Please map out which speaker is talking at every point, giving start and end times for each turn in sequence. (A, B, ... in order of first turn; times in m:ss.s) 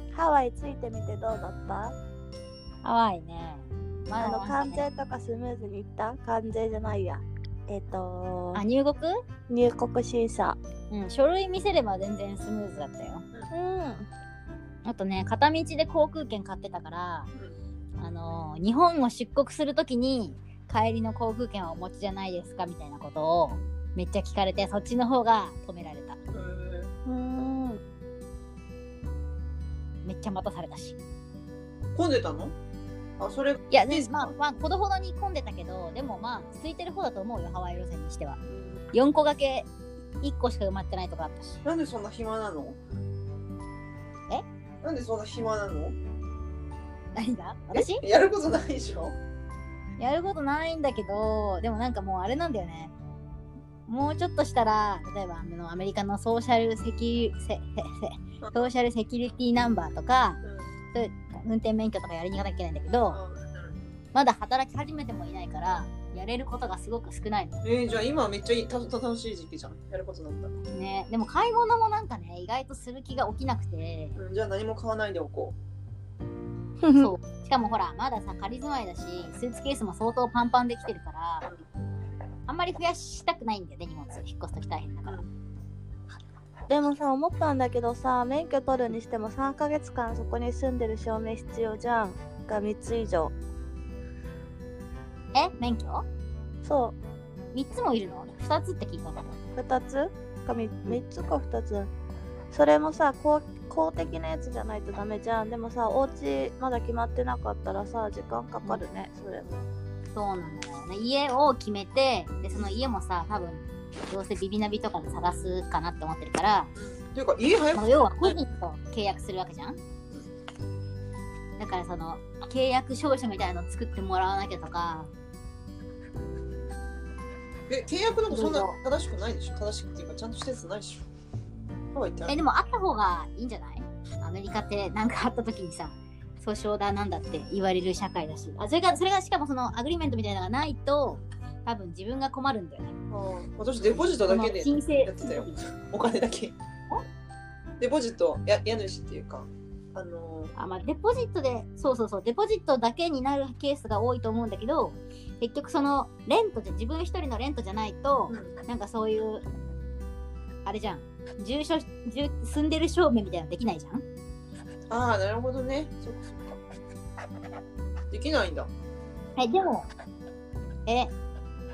0:00.1-0:02.0 A
0:02.8-0:04.8 B
0:04.2-0:08.6 A
0:08.5-0:09.2 B
0:09.5-0:10.6 A
0:10.9-0:13.3 B
0:13.5-0:14.1 A
0:14.8-0:17.3 B
0:18.0-0:26.2 B
0:26.3-0:26.9 C
0:27.1-0:27.8 A
0:30.0-0:31.0 B
0:31.9-0:32.6 C
0:33.2-0:34.3 C
0:33.7-0:38.4 B
0:38.9-0:39.7 B
0:40.2-0:41.6 B
0:41.6-0:42.8 C
0:44.8-0:46.0 C
0:47.1-0:48.0 B
0:47.7-0:49.2 C
0:50.0-0:52.9 B
0:53.9-1:00.4 B
0:58.4-0:58.7 C
1:00.9-1:03.2 B
1:03.1-1:03.9 C
1:04.1-1:07.6 B
1:07.6-1:10.5 C
1:10.7-1:14.2 B
1:14.2-1:15.6 C
1:16.8-1:17.1 A
1:17.0-1:21.5 B
1:22.5-1:25.2 B
1:26.7-1:33.4 A
1:35.3-1:36.1 B
1:36.6-1:37.0 A
1:37.5-1:39.4 B
1:39.6-1:41.9 A
1:42.5-1:49.6 A
1:50.2-1:56.7 B
1:56.8-1:58.4 C
1:57.8-1:59.8 B
2:01.6-2:05.1 B
2:07.7-2:11.1 C
2:08.2-2:08.8 B
2:11.9-2:12.4 C
2:12.3-2:23.0 B
2:23.1-2:26.6 C
2:23.9-2:25.6 B
2:27.8-2:30.5 C
2:30.6-2:39.4 B
2:40.6-2:44.0 B
2:44.9-2:46.6 C
2:48.1-2:48.7 C
2:49.4-2:49.9 B
2:50.9-2:51.1 B